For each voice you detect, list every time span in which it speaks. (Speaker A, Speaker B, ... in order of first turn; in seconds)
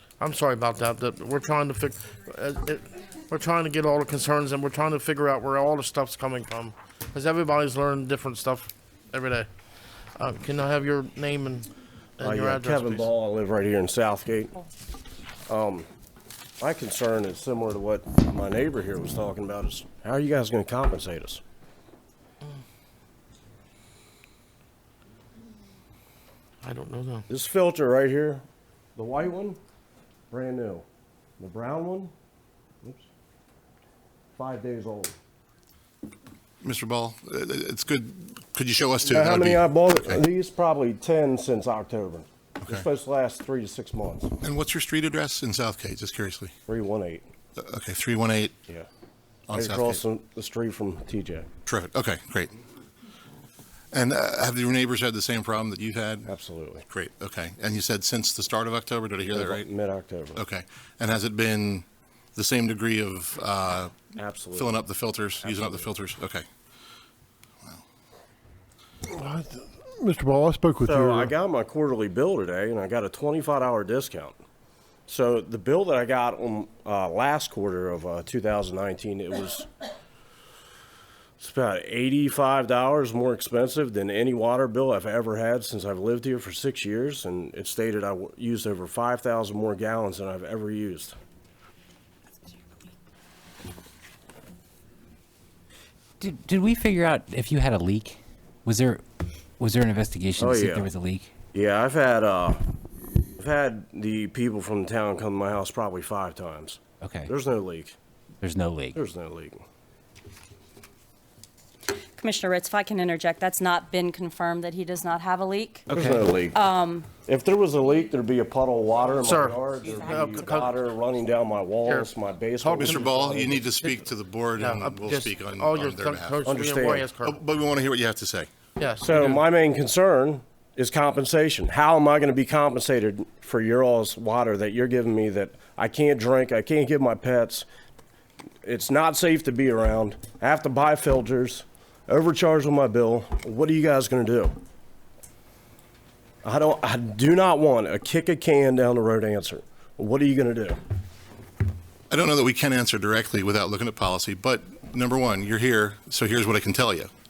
Speaker A: 0.2-9.5, 10.2-13.1, 26.6-27.3, 119.2-120.8, 122.6-123.6, 124.6-127.4, 128.8-129.4
Speaker B: 12.2-14.5, 15.5-15.9, 16.6-21.4, 27.3-28.4, 29.0-29.6, 30.3-30.9, 31.4-32.1, 34.4-35.1, 39.1-44.4, 46.7-47.2, 49.5-51.5, 56.3-56.8, 59.3-60.4, 64.2-64.8, 65.4-65.9, 70.8-74.4, 75.1-79.7, 81.4-91.2, 100.4-100.9, 101.5-102.6, 103.4-108.0, 108.9-109.6, 115.9-116.6, 117.2-123.7, 126.5-127.1, 129.0-137.7, 138.6-144.5, 146.4-150.8
Speaker C: 36.6-40.2, 44.4-46.5, 47.6-48.6, 49.5-50.0, 51.7-52.5, 53.9-56.3, 56.9-59.7, 60.4-66.5, 122.8-126.5, 127.2-128.5, 152.1-157.1
Speaker D: 69.1-71.3
Speaker E: 96.2-99.0, 99.6-101.3, 107.0-107.3, 108.4-109.0, 115.9-116.2
Speaker F: 112.2-115.9, 116.5-117.1